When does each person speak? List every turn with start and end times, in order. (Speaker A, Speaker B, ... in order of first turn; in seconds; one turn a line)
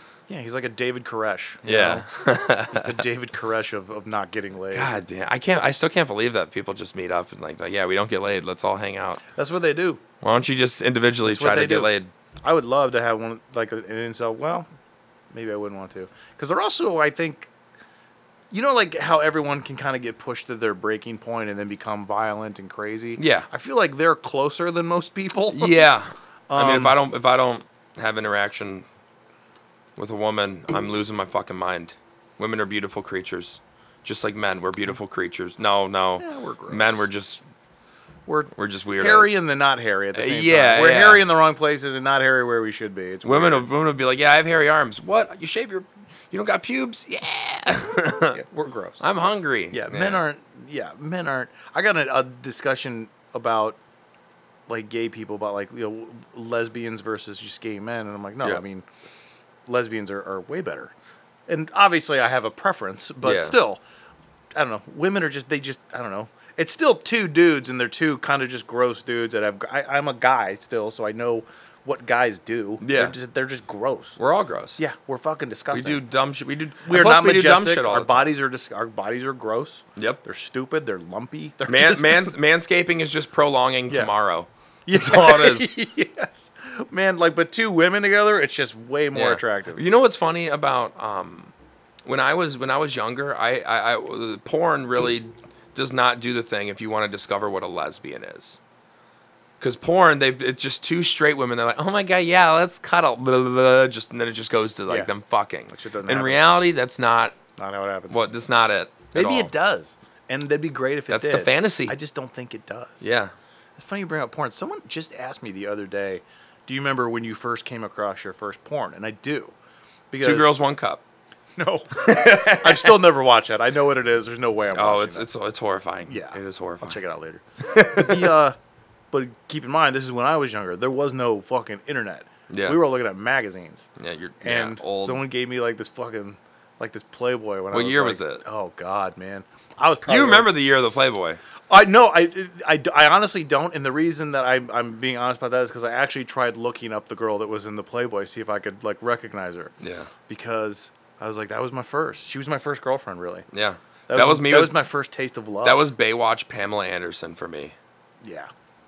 Speaker A: 0.3-2.1
Speaker B: 1.6-3.0
Speaker A: 2.6-4.9
Speaker B: 4.7-9.2
Speaker A: 9.4-10.0
Speaker B: 10.2-12.1
Speaker A: 11.2-11.9
Speaker A: 12.4-14.7
Speaker A: 15.3-17.5
Speaker A: 18.5-25.9
Speaker B: 23.2-23.5
Speaker B: 25.5-28.8
Speaker A: 26.5-27.0
Speaker B: 29.9-37.4
Speaker A: 36.2-37.0
Speaker A: 38.3-43.7
Speaker B: 38.5-39.4
Speaker B: 40.1-41.2
Speaker B: 43.2-48.4
Speaker A: 48.2-49.0
Speaker B: 49.0-50.2
Speaker A: 49.7-53.8
Speaker A: 54.7-58.8
Speaker A: 59.7-60.9
Speaker A: 61.5-63.8
Speaker B: 63.2-63.6
Speaker A: 64.5-74.2
Speaker B: 72.8-73.1
Speaker B: 74.2-74.8
Speaker A: 74.8-76.0
Speaker B: 75.7-78.3
Speaker A: 76.9-82.3
Speaker B: 80.0-80.2
Speaker B: 81.6-85.7
Speaker A: 84.9-89.8
Speaker B: 89.1-91.5
Speaker B: 92.0-98.6
Speaker B: 99.6-107.4
Speaker A: 105.7-106.5
Speaker A: 107.6-108.3
Speaker B: 108.1-109.5
Speaker A: 109.1-113.0
Speaker B: 111.1-112.0
Speaker B: 113.0-113.3
Speaker A: 113.8-119.5
Speaker A: 120.1-120.6
Speaker B: 120.2-121.0
Speaker A: 121.6-125.3
Speaker B: 122.0-123.0
Speaker B: 124.7-127.0
Speaker A: 126.0-128.6
Speaker B: 127.6-128.4
Speaker A: 129.1-133.9
Speaker B: 132.5-132.8
Speaker B: 134.0-135.2
Speaker A: 134.4-140.5
Speaker B: 137.7-138.4
Speaker B: 140.1-141.4
Speaker A: 141.7-149.7
Speaker B: 149.8-150.1
Speaker A: 150.3-153.5
Speaker B: 153.5-154.7
Speaker A: 154.1-155.8
Speaker B: 155.6-157.8
Speaker A: 158.2-158.5